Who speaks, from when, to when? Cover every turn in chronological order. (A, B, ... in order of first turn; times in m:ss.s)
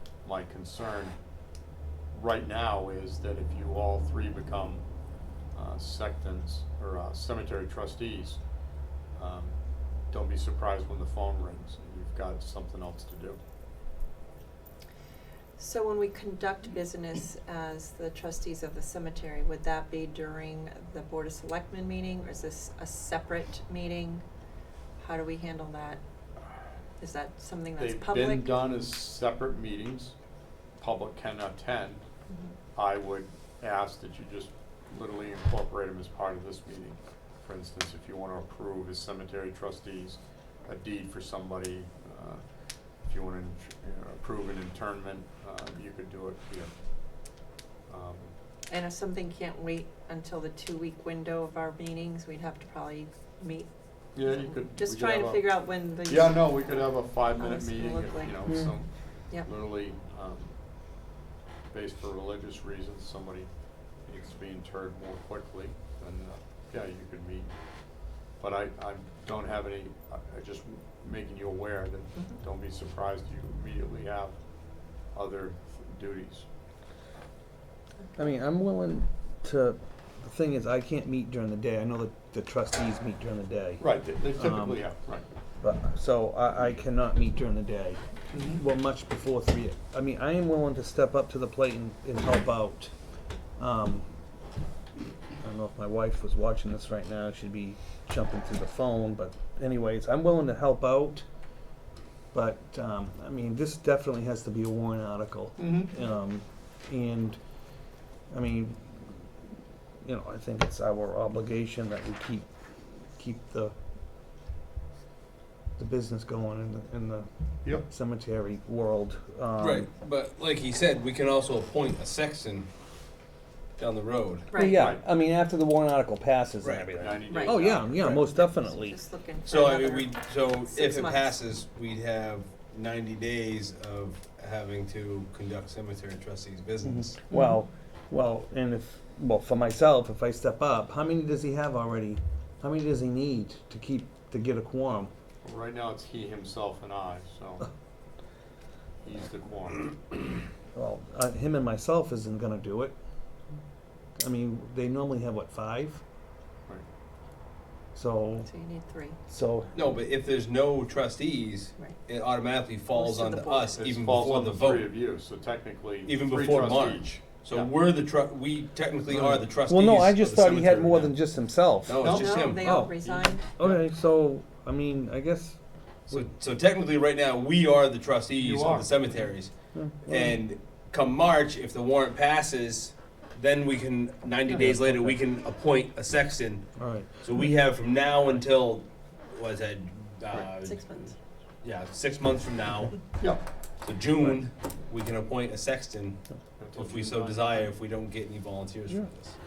0:00.2-0:01.2 A
0:02.1-0:04.9 A
0:05.5-0:08.4 A
0:09.2-0:13.4 A
0:15.6-0:24.2 B
0:25.0-0:26.0 B
0:27.0-0:28.5 B
0:27.8-0:30.2 A
0:30.8-0:32.0 A
0:32.8-0:42.4 A
0:43.1-0:46.7 A
0:47.9-0:48.3 A
0:48.7-0:53.7 B
0:54.2-1:00.6 A
0:54.3-0:56.6 B
0:57.4-0:58.6 B
0:58.5-0:58.8 C
1:01.7-1:03.5 A
1:04.0-1:07.5 A
1:08.3-1:14.4 A
1:15.1-1:16.5 A
1:18.2-1:24.8 C
1:23.8-1:25.2 A
1:25.6-1:32.9 C
1:28.3-1:28.6 A
1:33.6-1:34.1 C
1:35.4-1:41.2 C
1:42.3-1:47.4 C
1:45.6-1:45.9 A
1:48.3-1:49.3 C
1:50.0-1:53.8 C
1:55.8-1:59.9 C
1:59.6-2:02.7 D
2:03.8-2:04.5 D
2:04.5-2:04.8 B
2:04.5-2:09.0 C
2:04.7-2:05.0 A
2:07.0-2:08.3 A
2:07.3-2:11.4 B
2:09.5-2:17.2 D
2:16.8-2:25.1 C
2:25.4-2:27.7 A
2:29.0-2:30.0 A
2:30.8-2:33.0 C
2:34.2-2:36.0 C
2:38.0-2:38.5 C
2:38.4-2:39.2 B
2:39.3-2:39.8 C
2:39.8-2:44.9 D
2:42.9-2:43.7 B
2:43.7-2:47.7 A
2:46.0-2:51.3 D
2:49.1-2:52.0 C
2:51.9-2:52.7 D
2:52.0-2:52.4 A
2:52.0-2:53.4 B
2:52.6-2:53.0 C
2:53.0-2:53.8 A
2:53.6-2:56.3 C
2:56.1-3:10.9 D
2:58.4-2:58.9 A
2:59.7-3:00.4 C
3:04.5-3:05.2 C
3:06.8-3:07.2 C
3:10.6-3:11.2 B
3:11.6-3:13.0 D
3:13.2-3:13.4 A
3:13.8-3:16.2 D
3:16.6-3:17.7 A
3:16.8-3:19.4 D